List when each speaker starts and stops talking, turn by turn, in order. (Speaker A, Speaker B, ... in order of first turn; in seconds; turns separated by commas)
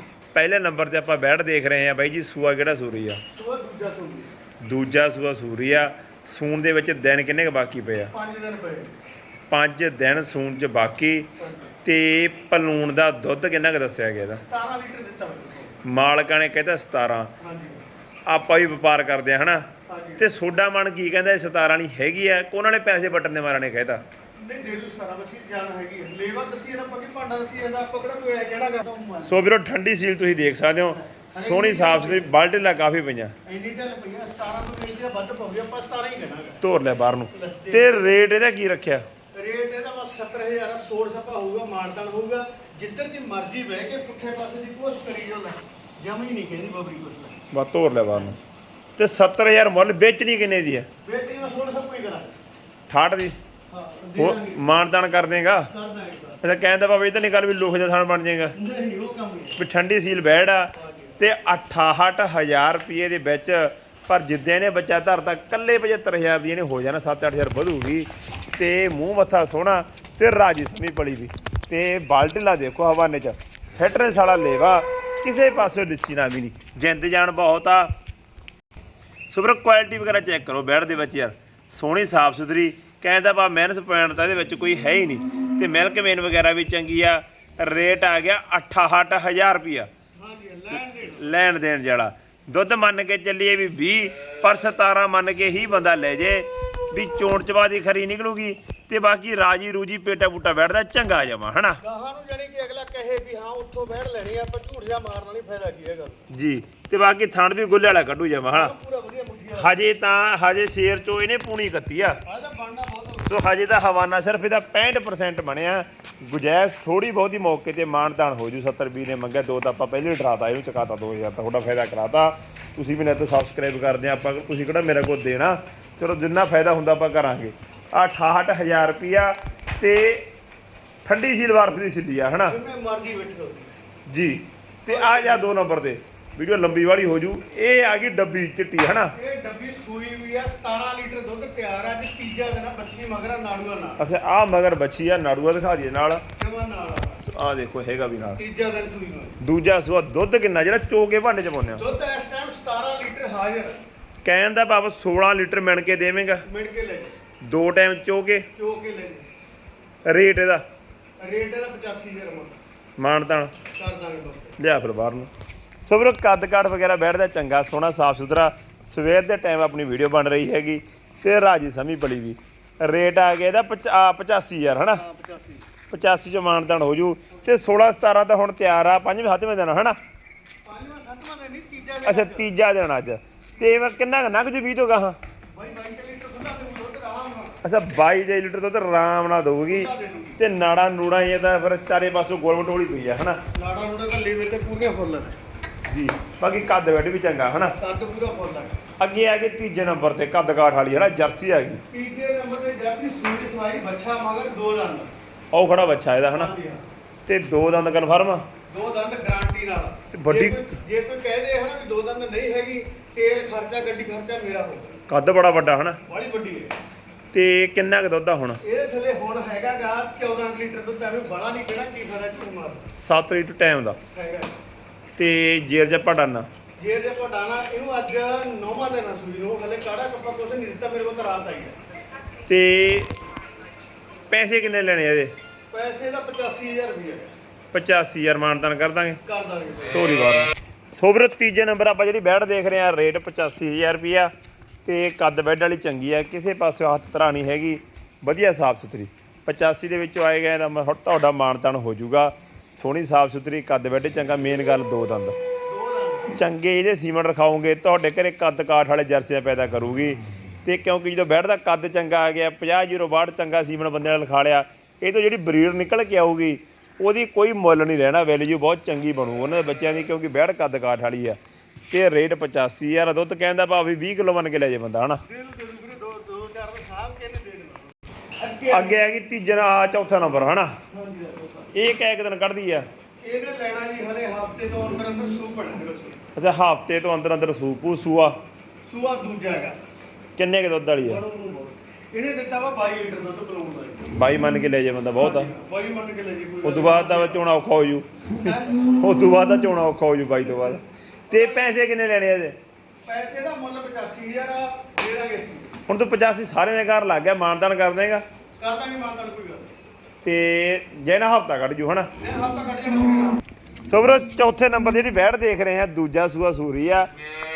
Speaker A: 0.3-3.2, Speaker B: 3.3-4.3, Speaker A: 4.6-8.1, Speaker B: 8.1-8.9, Speaker A: 9.5-11.3, Speaker B: 11.4-11.7, Speaker A: 11.8-14.4, Speaker B: 14.4-15.8, Speaker A: 15.8-17.3, Speaker B: 17.4-17.8, Speaker A: 18.3-19.7, Speaker B: 19.9-20.3, Speaker A: 20.2-24.0, Speaker B: 24.4-29.4, Speaker A: 29.3-33.3, Speaker B: 31.1-32.3, Speaker B: 33.4-36.6, Speaker A: 36.6-39.0, Speaker B: 37.3-38.3, Speaker B: 39.3-47.4, Speaker A: 47.5-48.4, Speaker A: 49.0-50.9, Speaker B: 51.0-52.3, Speaker A: 52.9-53.3, Speaker B: 53.7-54.7, Speaker A: 54.2-55.7, Speaker B: 55.7-56.4, Speaker A: 56.4-58.5, Speaker B: 58.5-59.6, Speaker A: 59.6-77.9, Speaker B: 60.7-61.2, Speaker A: 79.3-89.9, Speaker B: 90.2-91.4, Speaker A: 91.2-101.8, Speaker B: 101.8-106.2, Speaker A: 106.3-108.7, Speaker B: 108.5-109.7, Speaker A: 109.6-112.2, Speaker B: 112.2-113.4, Speaker A: 113.3-130.3, Speaker A: 131.1-132.6, Speaker B: 132.4-133.7, Speaker A: 134.1-139.1, Speaker B: 134.9-135.6, Speaker B: 139.1-144.0, Speaker A: 144.0-146.2, Speaker B: 146.3-147.2, Speaker A: 147.2-148.4, Speaker B: 148.4-149.4, Speaker A: 149.4-151.8, Speaker B: 151.8-153.8, Speaker A: 154.2-156.4, Speaker B: 156.4-157.1, Speaker A: 157.4-158.4, Speaker B: 158.5-159.3, Speaker A: 160.1-160.6, Speaker B: 161.2-162.6, Speaker A: 163.0-163.5, Speaker B: 163.7-164.6, Speaker A: 164.6-165.3, Speaker A: 165.8-175.0, Speaker B: 174.8-175.7, Speaker A: 175.9-180.0, Speaker B: 180.6-182.5, Speaker A: 182.0-185.2, Speaker B: 185.5-187.6, Speaker A: 187.6-193.4, Speaker B: 189.7-190.4, Speaker B: 193.5-195.4, Speaker A: 195.9-197.8, Speaker B: 197.8-198.8, Speaker A: 199.0-201.8, Speaker B: 201.9-205.1, Speaker A: 205.5-206.5, Speaker B: 206.3-206.8, Speaker A: 207.2-208.4, Speaker B: 208.7-215.0, Speaker A: 210.1-210.7, Speaker A: 215.1-216.0, Speaker B: 216.0-216.7, Speaker A: 217.3-218.6, Speaker B: 218.6-222.9, Speaker A: 222.9-224.0, Speaker B: 224.1-224.5, Speaker A: 225.2-226.5, Speaker B: 226.8-231.8, Speaker A: 232.5-233.1, Speaker A: 234.3-235.3, Speaker B: 235.7-237.3, Speaker A: 237.7-239.2, Speaker B: 239.2-240.0, Speaker A: 239.9-244.3, Speaker A: 244.8-255.3, Speaker B: 255.7-256.4, Speaker A: 256.3-271.4, Speaker A: 271.9-275.2, Speaker B: 275.2-279.0, Speaker A: 278.7-280.8, Speaker B: 280.9-281.7, Speaker A: 281.7-282.9, Speaker B: 283.2-286.2, Speaker A: 286.4-288.4, Speaker B: 288.8-289.8, Speaker A: 290.4-291.2, Speaker B: 291.0-294.1, Speaker A: 294.1-295.5, Speaker B: 295.1-297.4, Speaker A: 296.6-302.6, Speaker B: 298.4-298.9, Speaker B: 301.3-301.8, Speaker B: 303.0-305.7, Speaker A: 305.9-308.2, Speaker B: 308.6-309.7, Speaker A: 310.2-312.1, Speaker B: 312.2-313.4, Speaker A: 313.9-317.1